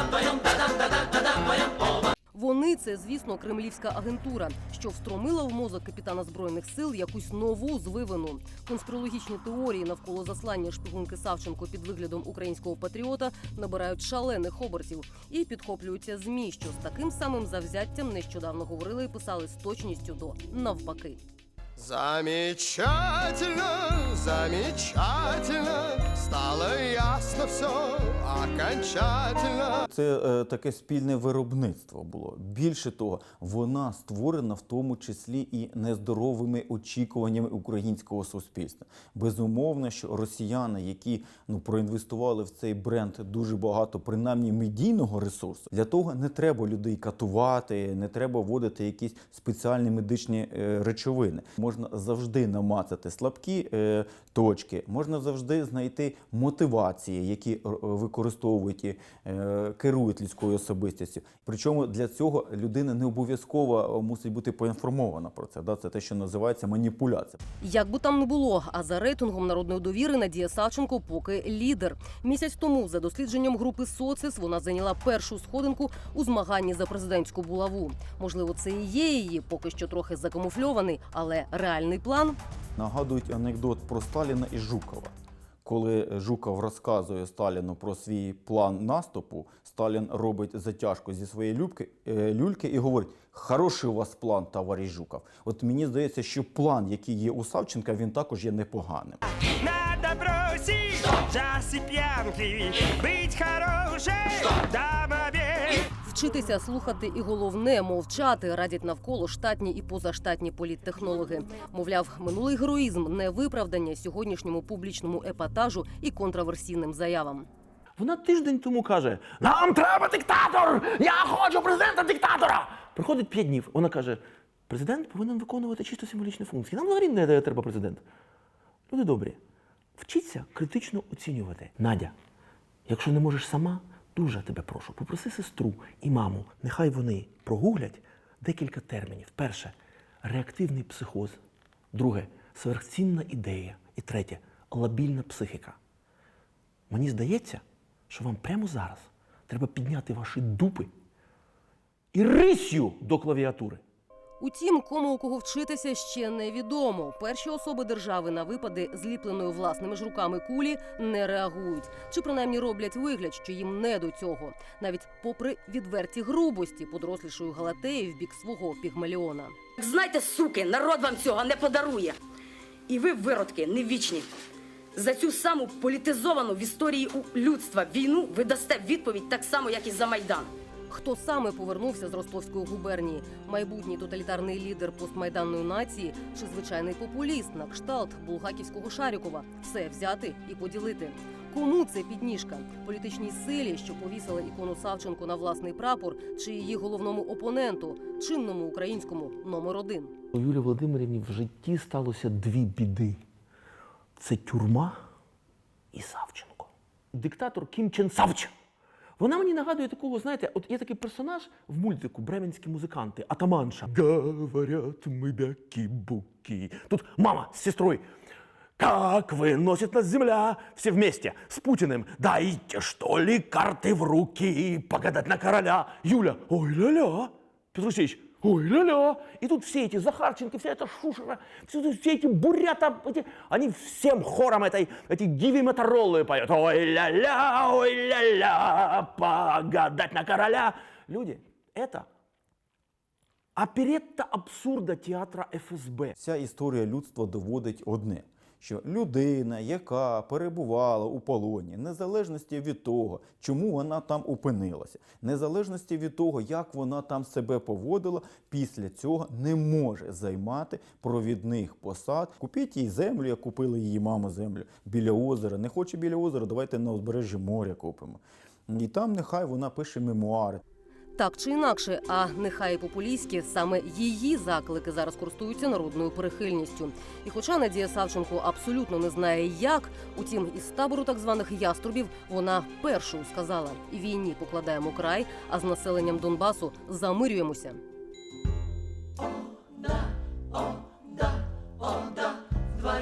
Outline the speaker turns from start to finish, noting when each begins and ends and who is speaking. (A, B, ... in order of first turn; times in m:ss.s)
0:02.3-0:21.2 A
0:21.8-0:29.8 B
0:29.9-1:07.4 C
1:07.6-1:22.4 A
1:22.8-1:39.2 C
1:39.6-1:45.9 D
1:46.0-1:57.5 A
1:58.0-2:08.0 E
2:08.9-2:09.4 E
2:10.0-2:12.1 E
2:12.9-2:21.4 E
2:21.9-2:25.8 E
2:26.9-2:30.9 E
2:32.1-2:33.8 E
2:34.4-2:49.6 A
2:49.8-2:52.2 F
2:52.9-2:54.3 F
2:54.9-3:00.5 F
3:00.9-3:20.1 A
3:20.3-3:23.2 E
3:24.2-3:25.0 E
3:25.9-3:28.5 E
3:29.2-3:38.0 E
3:38.8-4:02.1 E
4:03.6-4:06.1 E
4:06.2-4:30.6 C
4:31.2-4:47.8 A